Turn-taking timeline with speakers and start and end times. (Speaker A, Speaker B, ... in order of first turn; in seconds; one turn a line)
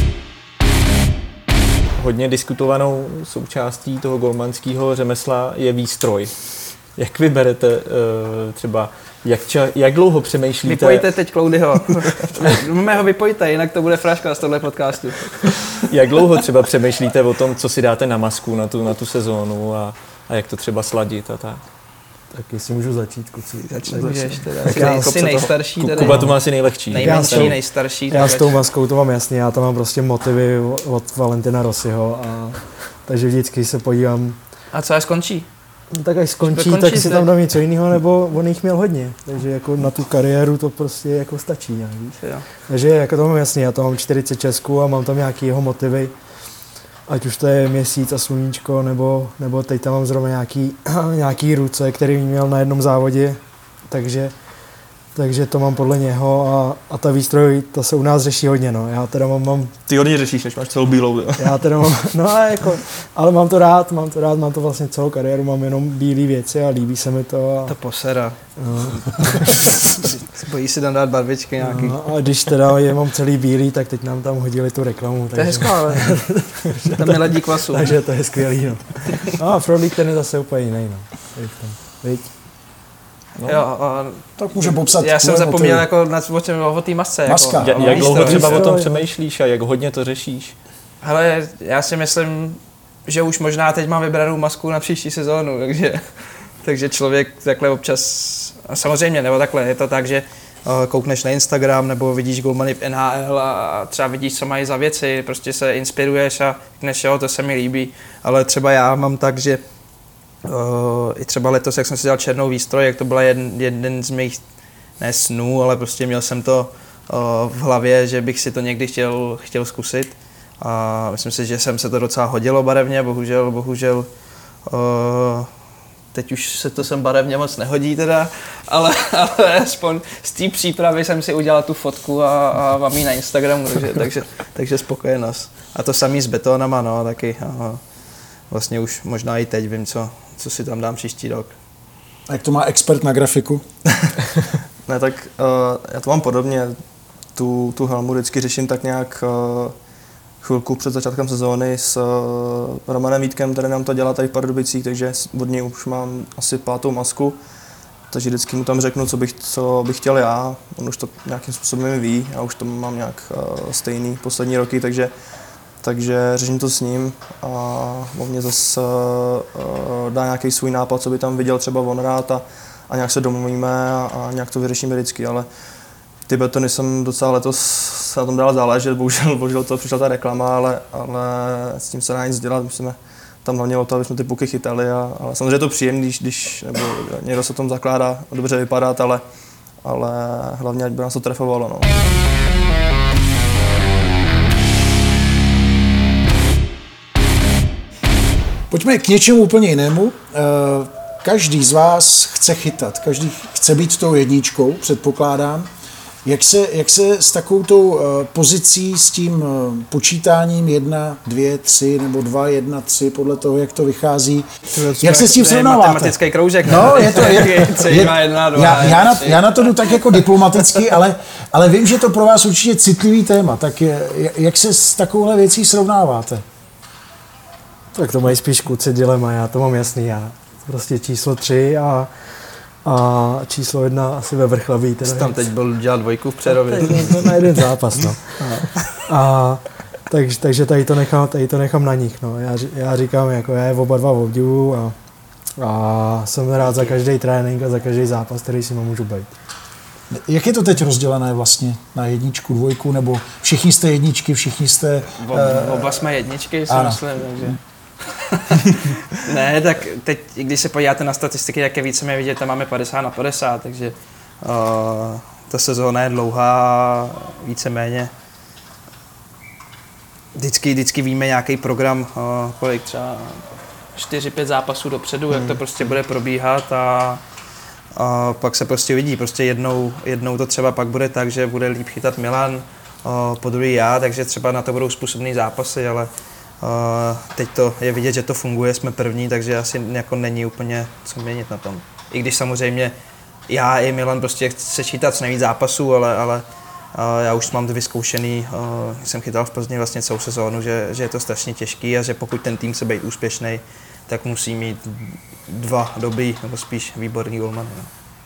Speaker A: 1.9-11.1
Speaker B: 10.6-15.8
Speaker A: 15.9-21.6
Speaker C: 22.3-24.1
Speaker B: 23.6-26.3
Speaker D: 23.9-25.6
Speaker C: 24.6-25.2
Speaker A: 25.8-27.6
Speaker C: 26.0-34.4
Speaker B: 26.9-28.6
Speaker B: 34.7-35.5
Speaker C: 35.9-46.1
Speaker B: 36.4-37.3
Speaker B: 42.2-42.5
Speaker C: 47.1-54.3
Speaker C: 55.1-59.7
Speaker D: 59.9-61.5
Speaker C: 61.4-67.8
Speaker B: 67.7-68.4
Speaker C: 68.6-69.8
Speaker B: 69.8-72.3
Speaker C: 71.6-82.3
Speaker B: 75.3-76.4
Speaker B: 77.0-78.0
Speaker A: 83.4-83.6
Speaker B: 83.4-88.7
Speaker E: 84.4-85.9
Speaker E: 87.2-88.0
Speaker A: 87.5-90.5
Speaker C: 87.8-89.0
Speaker B: 91.0-96.0
Speaker B: 96.6-109.6
Speaker B: 110.4-114.4
Speaker B: 115.0-124.1
Speaker B: 124.7-125.5
Speaker B: 126.1-137.8
Speaker B: 138.5-141.5
Speaker E: 142.3-143.6
Speaker D: 144.0-144.3
Speaker D: 144.9-146.8
Speaker D: 147.3-149.7
Speaker D: 150.4-157.4
Speaker D: 158.1-165.1
Speaker D: 165.8-175.5
Speaker D: 176.2-189.2
Speaker D: 189.8-191.9
Speaker E: 198.7-205.7
Speaker E: 206.2-226.4
Speaker B: 214.7-220.6
Speaker C: 227.9-235.4
Speaker B: 235.1-237.3
Speaker C: 236.7-244.9
Speaker B: 238.4-238.9
Speaker C: 245.6-249.3
Speaker B: 246.6-247.0
Speaker E: 250.1-256.1
Speaker B: 255.2-268.1
Speaker E: 256.7-257.6
Speaker B: 270.4-277.2
Speaker D: 275.3-275.6
Speaker B: 277.9-286.1
Speaker B: 286.6-292.9
Speaker B: 293.5-307.9